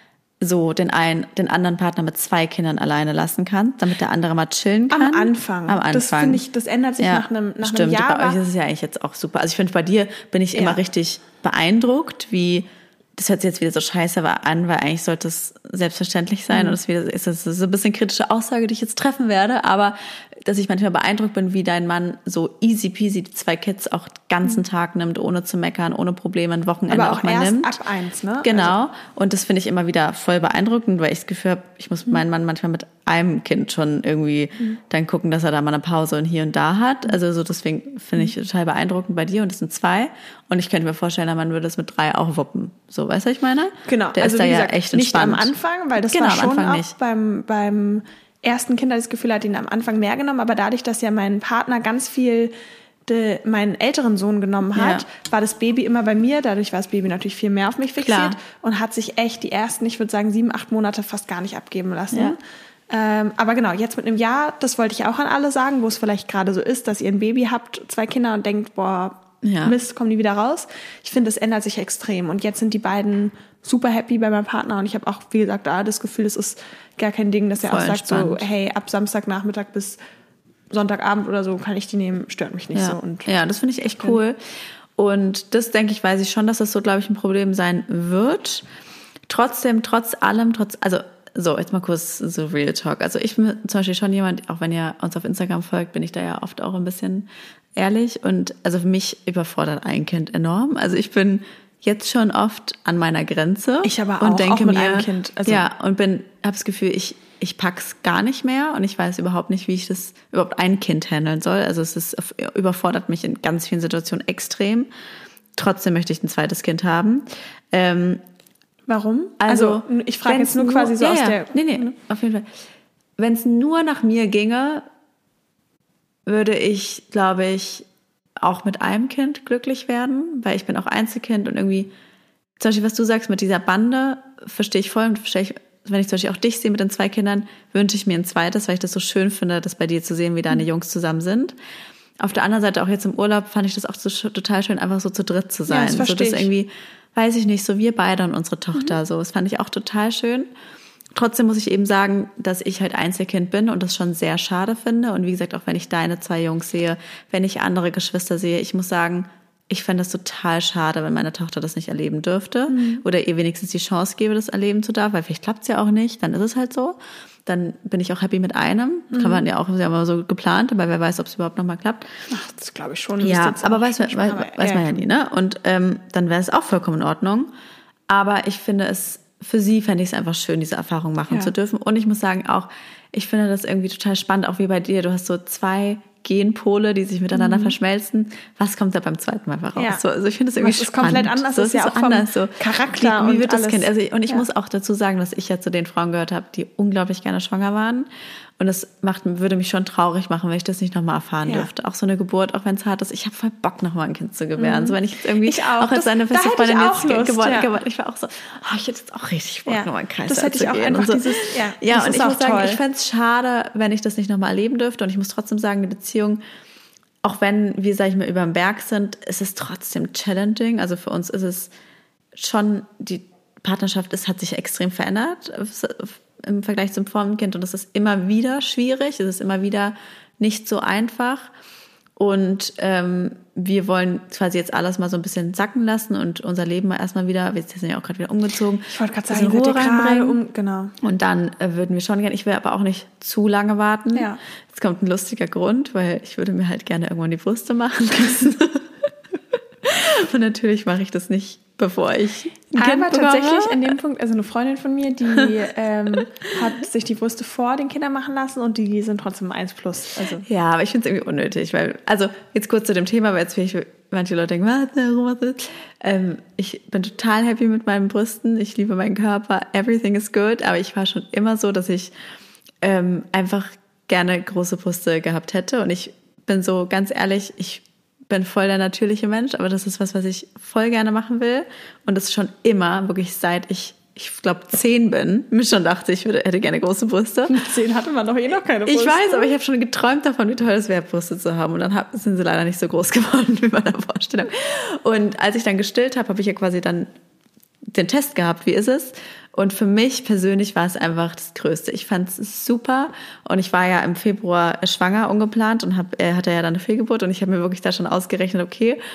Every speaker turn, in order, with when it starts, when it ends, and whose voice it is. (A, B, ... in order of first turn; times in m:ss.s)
0:00.4-0:06.4 A
0:04.9-0:08.4 B
0:07.0-0:27.7 A
0:10.5-0:10.8 B
0:16.5-0:16.8 B
0:26.9-0:28.8 B
0:28.4-0:46.9 A
0:43.9-0:52.5 B
0:53.1-1:20.0 B
0:54.8-0:55.1 A
0:58.0-0:58.4 A
1:02.1-1:02.4 A
1:09.4-1:09.8 A
1:17.6-1:18.5 A
1:20.7-1:23.4 B
1:22.7-1:28.6 A
1:29.3-1:54.9 A
1:43.8-1:45.6 B
1:55.6-1:58.2 A
1:58.9-2:01.9 B
1:59.4-2:02.5 A
2:03.2-2:04.9 A
2:06.3-2:07.9 A
2:08.4-2:11.9 A
2:12.6-2:21.6 A
2:22.2-2:30.5 A
2:25.7-2:26.5 B
2:31.1-2:52.2 A
2:42.7-2:43.0 B
2:49.1-2:49.4 B
2:52.3-2:55.0 B
2:53.2-2:57.5 A
2:58.1-3:36.4 A
3:07.3-3:07.8 B
3:09.8-3:10.0 B
3:10.6-3:14.4 B
3:24.6-3:27.7 B
3:29.7-3:32.8 B
3:37.2-3:41.7 A
3:42.4-3:51.5 A
3:52.2-4:00.4 A
3:58.9-4:00.9 B
4:01.0-4:08.9 A
4:04.1-4:04.4 B
4:09.8-4:13.9 A
4:12.8-4:20.4 B
4:20.4-4:32.1 A
4:32.8-4:47.6 A
4:47.5-4:49.5 B
4:48.8-4:57.1 A
4:57.9-5:09.0 A